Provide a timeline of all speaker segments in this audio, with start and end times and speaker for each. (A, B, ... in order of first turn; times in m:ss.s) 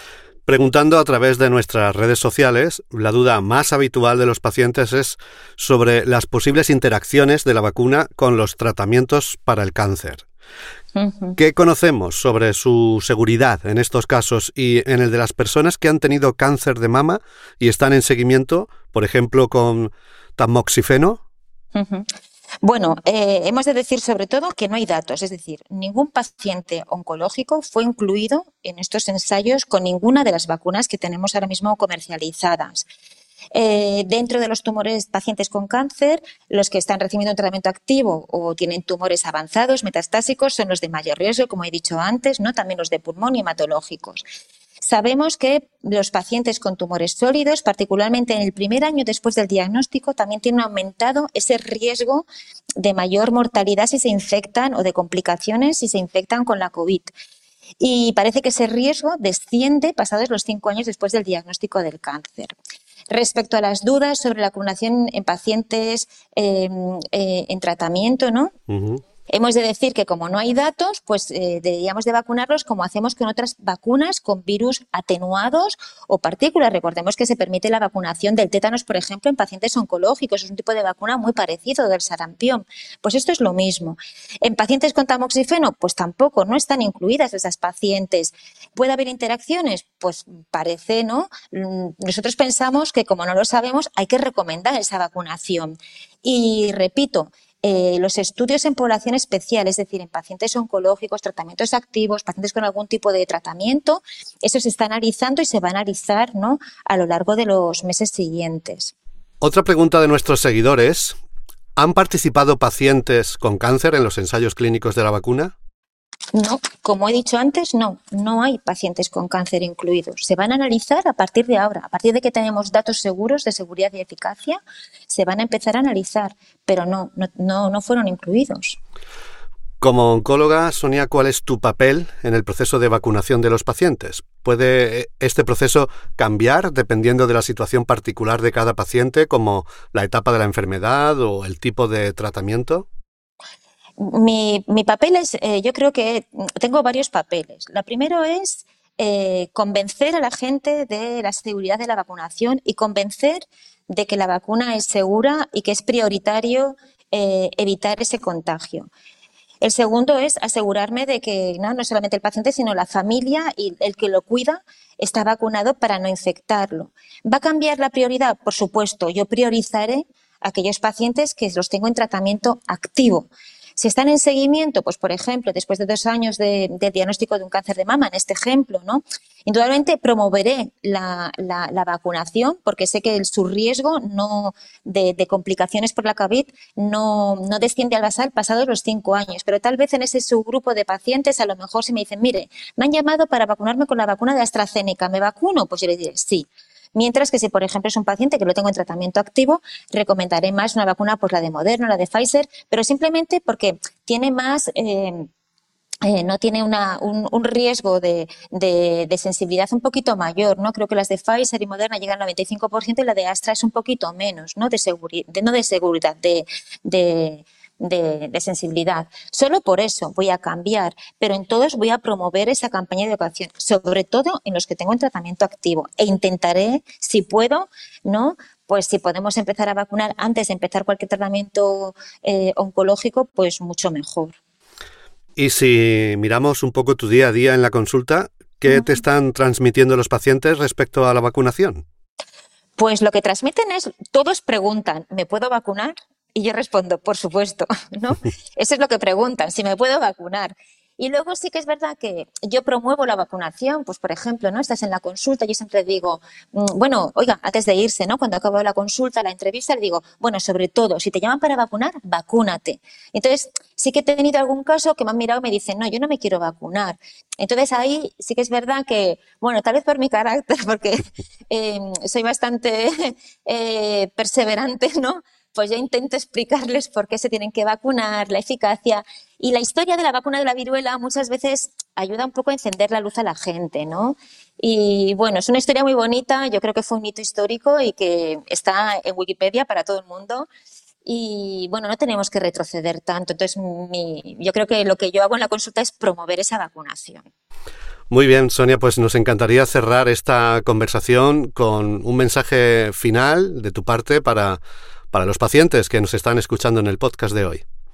0:00.4-0:10.2 A
0:10.9-0:11.4 B
0:11.4-0:21.2 A
0:21.7-0:22.1 B
0:22.6-0:32.8 B
0:33.5-0:44.2 B
0:44.8-0:52.2 B
0:52.8-0:57.1 B
0:57.8-1:02.5 B
1:03.1-1:08.5 B
1:08.7-1:09.0 A
1:09.3-1:48.9 B
1:49.4-1:51.2 A
1:51.8-1:55.5 A
1:56.3-2:08.8 B
2:09.8-2:22.8 A
2:24.0-2:38.9 B
2:39.6-3:25.3 B
3:26.0-3:54.3 B
3:55.4-4:01.8 A
4:02.8-4:50.5 B
4:51.0-4:57.2 B
4:58.1-5:04.6 A
5:05.1-5:07.6 A